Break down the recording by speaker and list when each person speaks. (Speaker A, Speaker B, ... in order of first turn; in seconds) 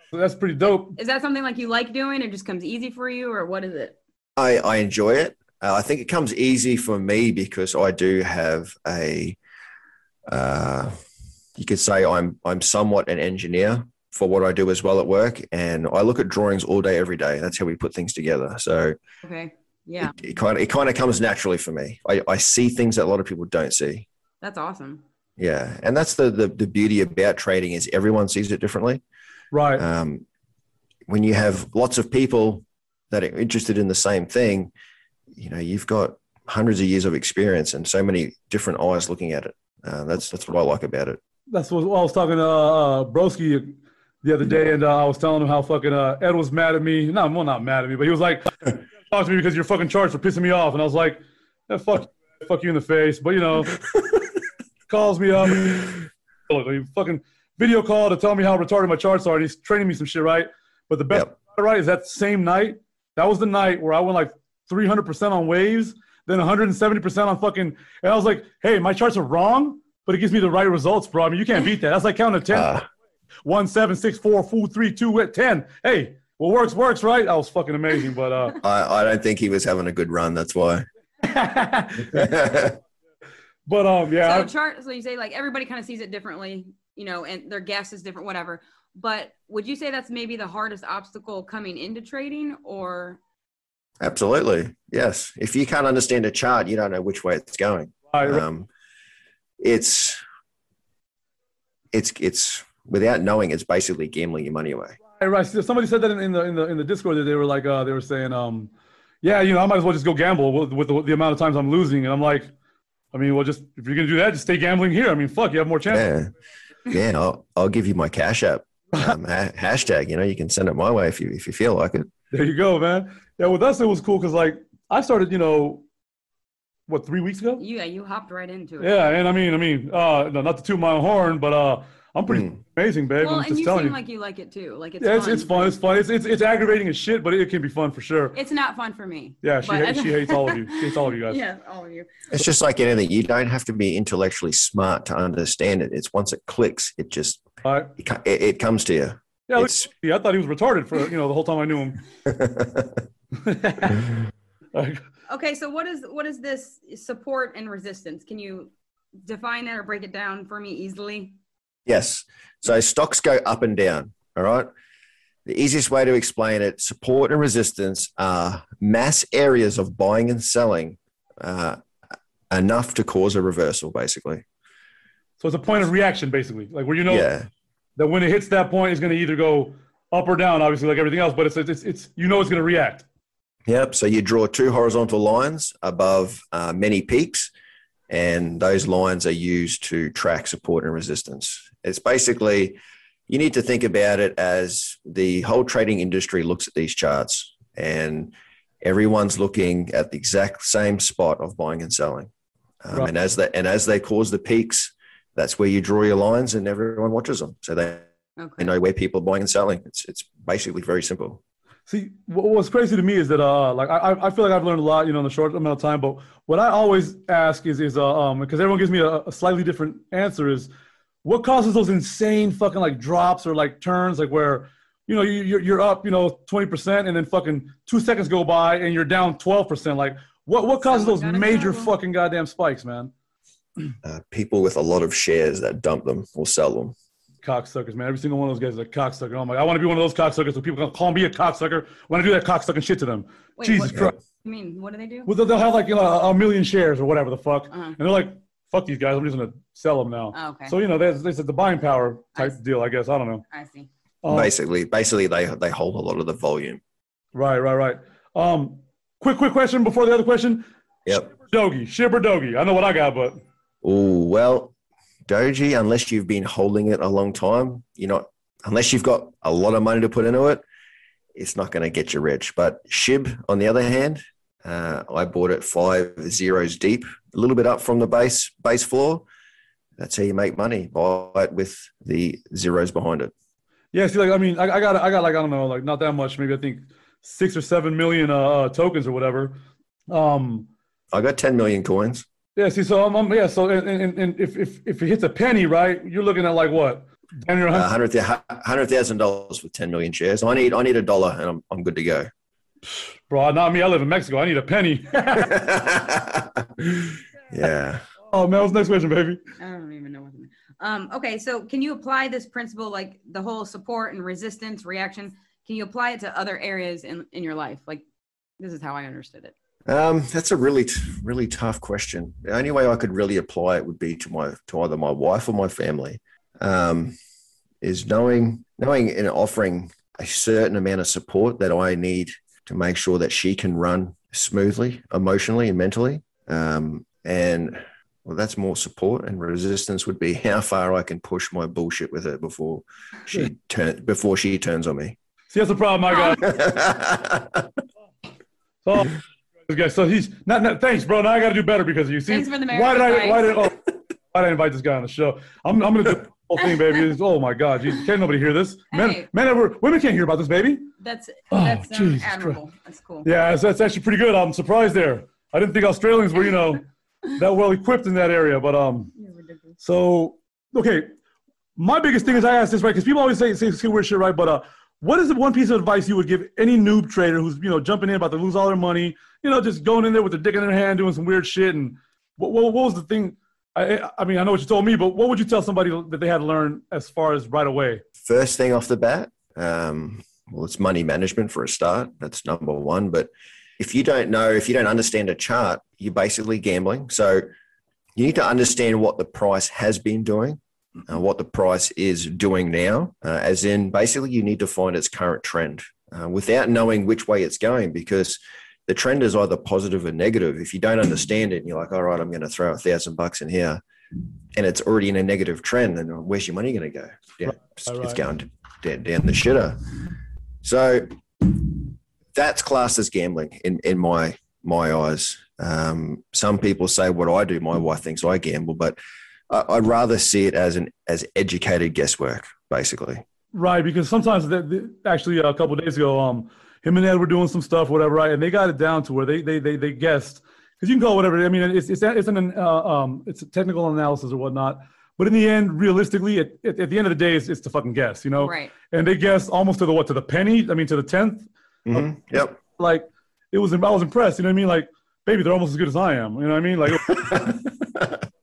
Speaker A: 0.1-1.0, 29.5-29.8, 41.5-53.8, 54.9-72.7, 73.4-78.6, 81.2-82.3, 83.7-84.5, 98.1-98.4, 105.1-108.7, 109.2-112.5, 113.1-116.1, 122.3-125.8, 126.9-127.6, 128.8-134.0, 135.0-138.4, 139.4-141.4, 147.6-147.9, 149.5-152.0, 153.4-154.1, 154.7-155.0, 175.4-177.3, 178.0-183.0, 211.9-220.7, 221.2-233.1, 237.4-244.1, 245.2-253.4, 254.2-254.5, 257.3-260.6, 261.3-263.4, 283.9-290.7, 292.6-297.9, 303.3-305.6, 308.3-309.4, 345.5-346.4, 348.8-349.1, 349.6-353.8, 354.3-360.9, 361.5-362.6, 363.2-369.1, 369.8-371.1, 371.8-388.0, 417.5-418.2, 433.5-452.1, 452.7-457.5
Speaker B: 0.8-4.0, 19.2-20.1, 24.4-25.0, 84.2-93.2, 127.6-129.0, 133.2-135.8, 138.3-142.1, 155.3-158.7, 159.2-161.3, 208.4-208.7, 230.8-231.9, 243.6-245.3, 247.7-248.0, 250.3-250.7, 253.5-253.9, 309.6-318.0, 318.6-319.5, 352.3-353.6, 358.9-359.3, 361.0-363.3, 369.1-369.8, 448.4-448.7
Speaker C: 4.3-9.4, 10.3-10.9, 11.6-19.0, 20.0-24.1, 25.4-29.0, 29.8-30.2, 31.1-34.7, 35.3-41.2, 72.5-72.8, 78.6-80.8, 82.1-82.8, 94.0-98.7, 99.6-100.2, 101.9-105.0, 115.9-116.3, 116.9-122.1, 132.3-132.6, 142.3-149.8, 152.2-153.0, 161.8-164.7, 165.4-171.8, 172.5-174.4, 177.1-177.5, 183.7-187.5, 188.1-202.3, 202.8-208.1, 208.6-211.4, 234.0-236.9, 254.3-256.8, 263.8-264.7, 265.3-270.6, 271.3-279.2, 280.0-283.3, 291.1-292.2, 297.7-302.3, 305.4-308.1, 319.9-327.1, 327.8-345.1, 346.4-347.7, 388.2-397.5, 398.1-413.8, 414.5-420.0, 420.6-429.0, 429.5-433.2, 451.9-452.6, 457.1-458.2